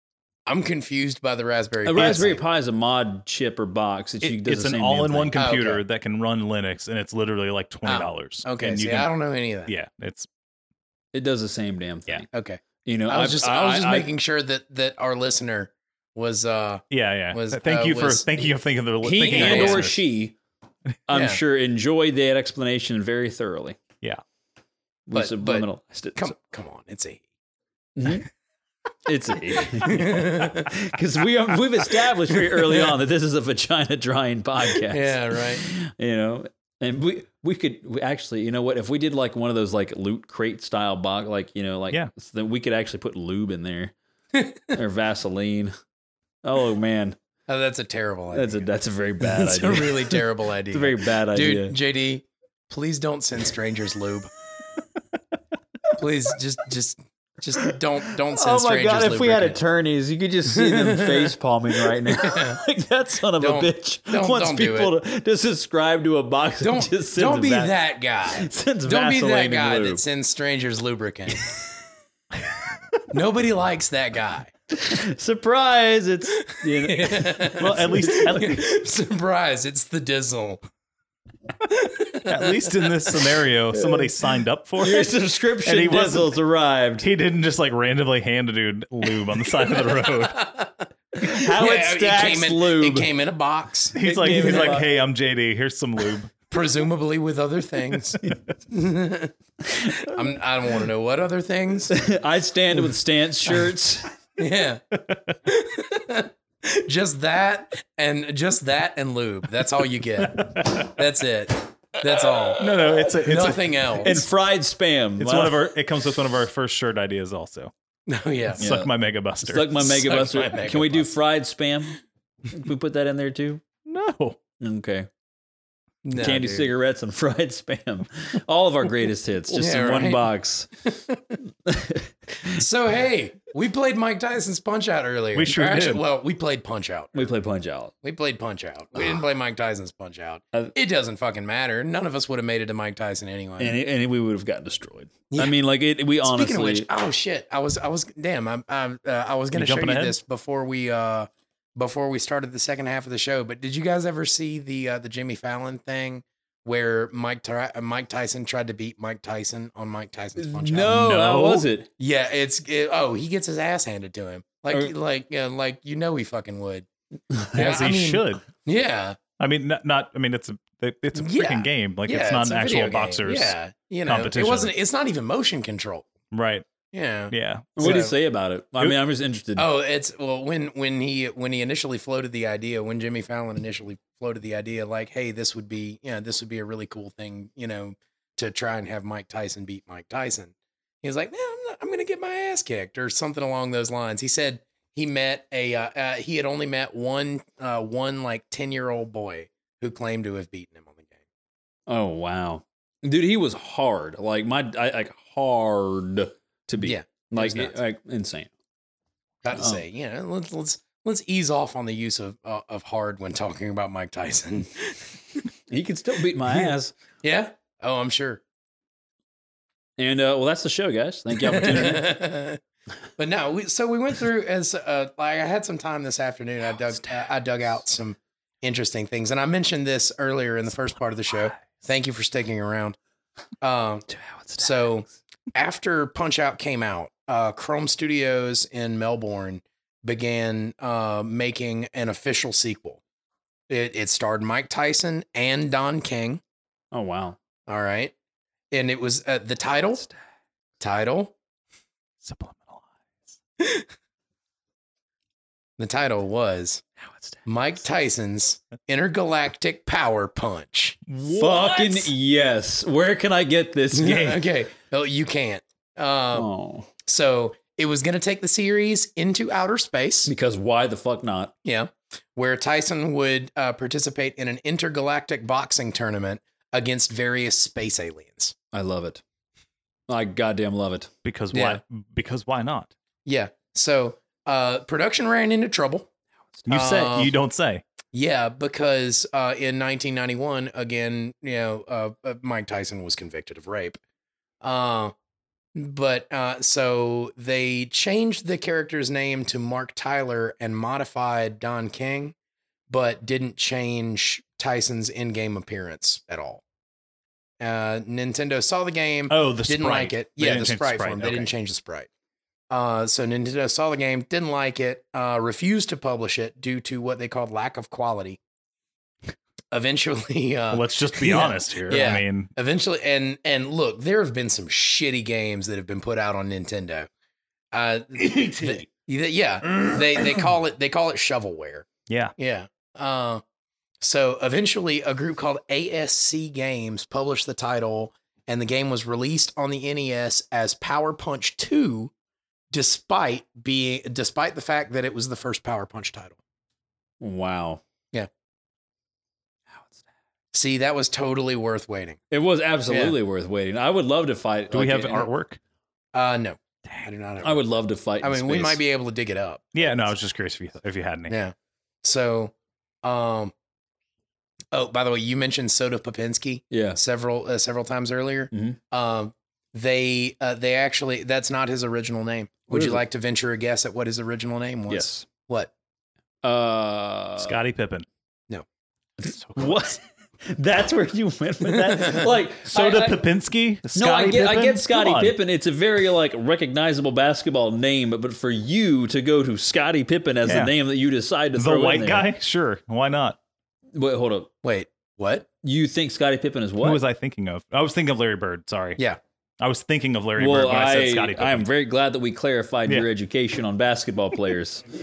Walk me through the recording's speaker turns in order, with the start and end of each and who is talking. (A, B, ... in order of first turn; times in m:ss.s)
0:00.5-0:02.4 A
0:01.8-0:05.4 B
0:04.2-0:09.1 C
0:05.3-0:05.8 A
0:07.8-0:09.7 A
0:09.7-0:10.3 C
0:11.1-0:12.3 B
0:12.3-0:18.5 A
0:12.8-0:14.1 B
0:16.9-0:19.9 C
0:19.0-0:20.4 B
0:19.2-0:19.9 A
0:21.1-0:23.8 B
0:21.1-0:21.4 A
0:25.1-0:26.3 B
0:25.1-0:27.2 A
0:28.0-0:28.3 B
0:29.0-0:43.9 B
0:29.8-0:30.7 A
0:32.6-0:32.9 A
0:34.8-0:35.6 A
0:44.3-0:44.6 A
0:44.7-0:45.7 B
0:46.4-0:47.2 B
0:47.5-0:48.7 A
0:48.3-0:51.8 B
0:49.2-0:54.3 A
0:56.0-0:59.6 A
0:58.3-1:07.7 B
1:00.5-1:01.3 A
1:01.8-1:02.6 A
1:03.4-1:04.9 A
1:06.6-1:11.5 A
1:08.3-1:10.0 B
1:13.1-1:14.5 A
1:14.7-1:18.5 B
1:16.5-1:20.6 A
1:17.6-1:18.6 C
1:21.7-1:23.1 A
1:22.2-1:25.1 C
1:23.8-1:24.1 B
1:24.8-1:27.1 B
1:25.6-1:26.4 C
1:27.0-1:30.5 C
1:30.3-1:30.7 A
1:31.1-1:33.1 B
1:31.2-1:34.8 A
1:33.9-1:36.3 C
1:34.0-1:34.9 B
1:36.5-1:38.2 A
1:38.7-1:39.3 A
1:39.7-1:40.0 B
1:39.9-1:41.9 A
1:41.9-1:44.1 B
1:44.4-1:44.8 A
1:45.4-1:52.6 A
1:50.4-1:50.9 C
1:52.6-1:54.2 C
1:53.2-1:54.2 A
1:54.0-1:55.6 B
1:55.2-1:57.7 C
1:58.1-1:58.6 A
1:58.5-1:59.8 C
1:58.6-1:58.9 B
1:59.4-2:03.6 B
1:59.8-2:01.1 A
2:03.8-2:04.4 C
2:04.6-2:05.1 B
2:06.0-2:06.7 A
2:06.2-2:10.7 B
2:09.5-2:10.3 A
2:10.9-2:11.2 A
2:11.6-2:12.6 B
2:12.5-2:17.3 A
2:15.4-2:16.0 C
2:17.1-2:17.9 B
2:18.0-2:23.8 A
2:23.6-2:26.9 B
2:26.2-2:41.0 A
2:29.5-2:30.2 C
2:40.4-2:41.9 B
2:40.9-2:41.6 C
2:42.0-2:46.9 A
2:47.3-2:47.8 B
2:47.5-2:48.4 C
2:47.6-2:49.2 A
2:49.4-2:53.5 C
2:51.2-2:56.1 A
2:54.1-2:54.7 C
2:56.3-2:56.6 C
2:56.9-2:58.1 A
2:57.3-2:58.0 C
2:57.8-2:59.7 B
2:59.6-3:21.2 A
3:21.9-3:28.5 B
3:26.8-3:27.8 A
3:29.4-3:35.4 A
3:29.5-3:29.8 B
3:35.7-3:36.9 B
3:37.2-3:38.4 A
3:40.0-3:42.1 B
3:41.3-3:42.6 A
3:43.2-3:53.0 A
3:53.6-4:03.0 A
3:54.1-3:54.9 B
4:03.7-4:06.4 A
4:06.9-4:07.4 B
4:07.7-4:08.1 A
4:08.7-4:10.0 A
4:10.8-4:11.3 A
4:12.2-4:13.3 C
4:15.8-4:16.8 A
4:17.4-4:21.0 A
4:21.1-4:22.1 C
4:21.3-4:24.5 B
4:23.9-4:26.5 A
4:26.3-4:26.9 B
4:27.0-4:30.3 A
4:30.2-4:31.5 B
4:31.6-4:38.5 A
4:38.7-4:39.2 B
4:40.1-4:41.1 B
4:41.2-4:42.9 C
4:41.5-4:41.8 A
4:43.2-4:46.1 A
4:46.6-4:47.8 C
4:46.7-4:47.3 A
4:48.1-4:54.0 A
4:54.6-4:55.1 A
4:55.7-5:02.3 A
5:02.9-5:06.6 A
5:07.6-5:12.1 A
5:09.3-5:11.5 C
5:12.7-5:18.4 A
5:19.7-5:27.1 A
5:20.7-5:22.5 C
5:27.7-5:33.4 A
5:32.1-5:32.3 C
5:34.0-5:42.1 A
5:42.7-5:46.4 A
5:47.2-5:47.8 B
5:50.5-5:52.2 A
5:52.3-5:55.2 B
5:52.9-5:53.2 A
5:54.7-5:55.6 C
5:56.1-5:57.6 A
5:57.4-5:58.8 B
5:58.2-6:00.1 A
5:59.7-6:01.3 C
6:01.3-6:03.5 A
6:04.7-6:15.7 A
6:06.7-6:07.0 B
6:08.5-6:08.8 B
6:12.7-6:13.0 B
6:14.9-6:15.2 B
6:16.4-6:17.6 B
6:17.4-6:18.1 C
6:19.2-6:23.2 B
6:21.8-6:25.4 C
6:23.9-6:32.2 B
6:30.4-6:30.7 C
6:31.6-6:33.4 C
6:33.9-6:34.5 B
6:34.6-6:35.5 A
6:35.6-6:37.0 B
6:36.8-6:39.0 C
6:39.6-6:41.7 C
6:40.4-6:44.9 B